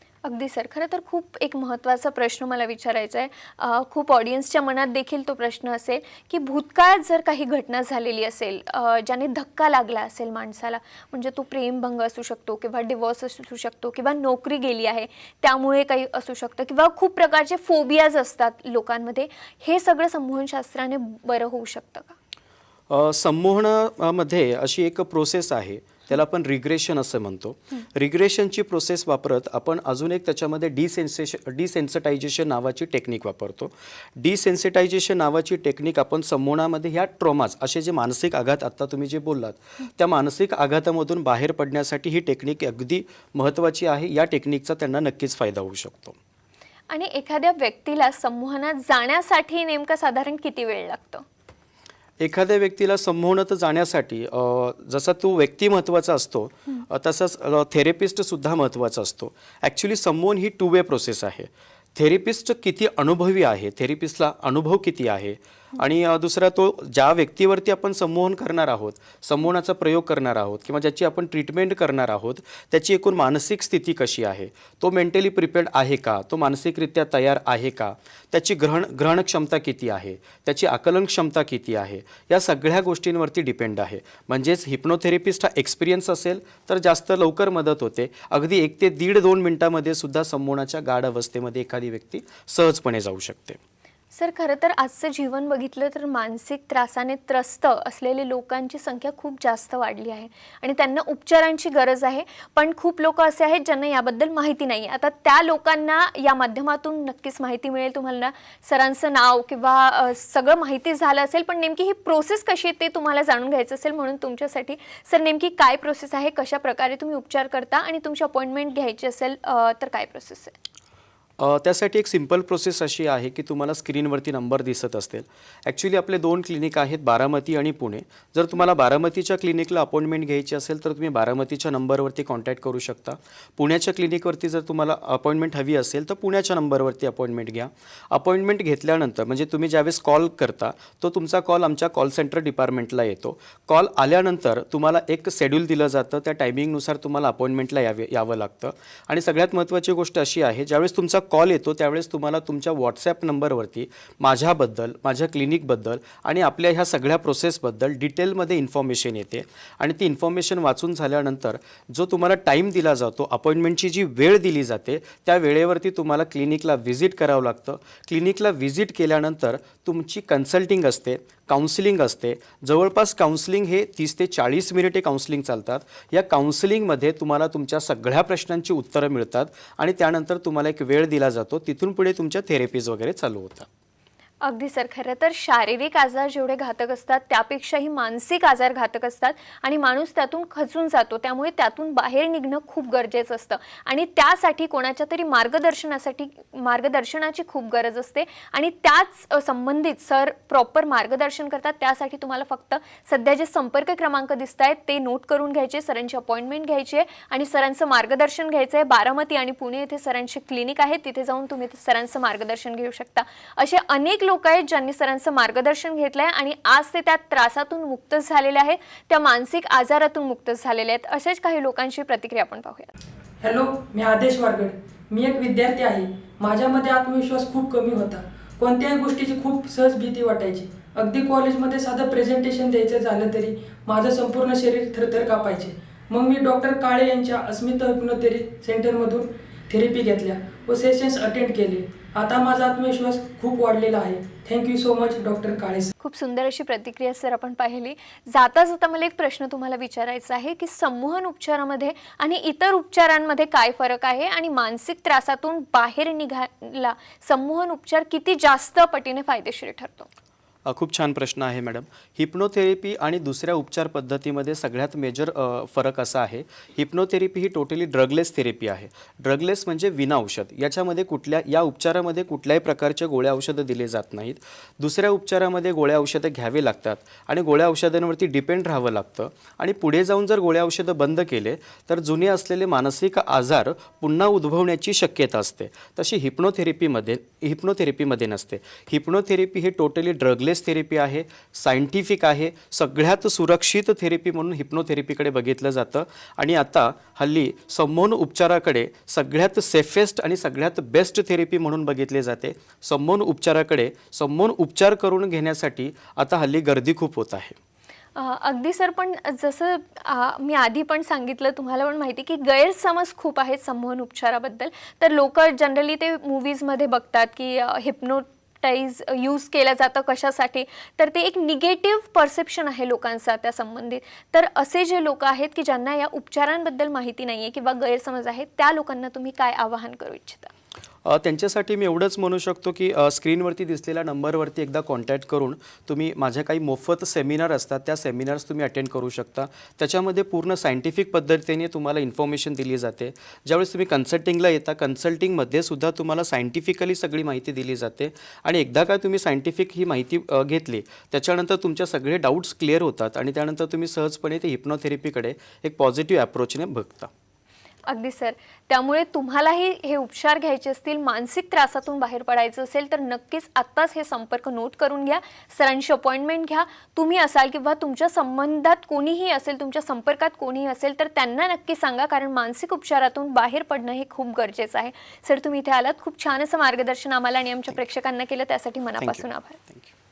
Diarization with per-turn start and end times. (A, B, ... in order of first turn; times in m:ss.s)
0:00.2-0:22.1 A
0:22.9-0:46.2 B
0:46.9-0:51.2 A
0:52.2-1:33.6 B
1:34.1-2:00.5 A
2:01.4-3:03.7 B
3:04.4-3:42.9 A
3:43.4-4:05.9 C
4:06.0-4:20.1 A
4:20.6-5:07.6 B
5:08.2-5:30.5 A
5:31.0-5:57.1 B
5:57.9-6:19.6 A
6:19.0-6:19.8 B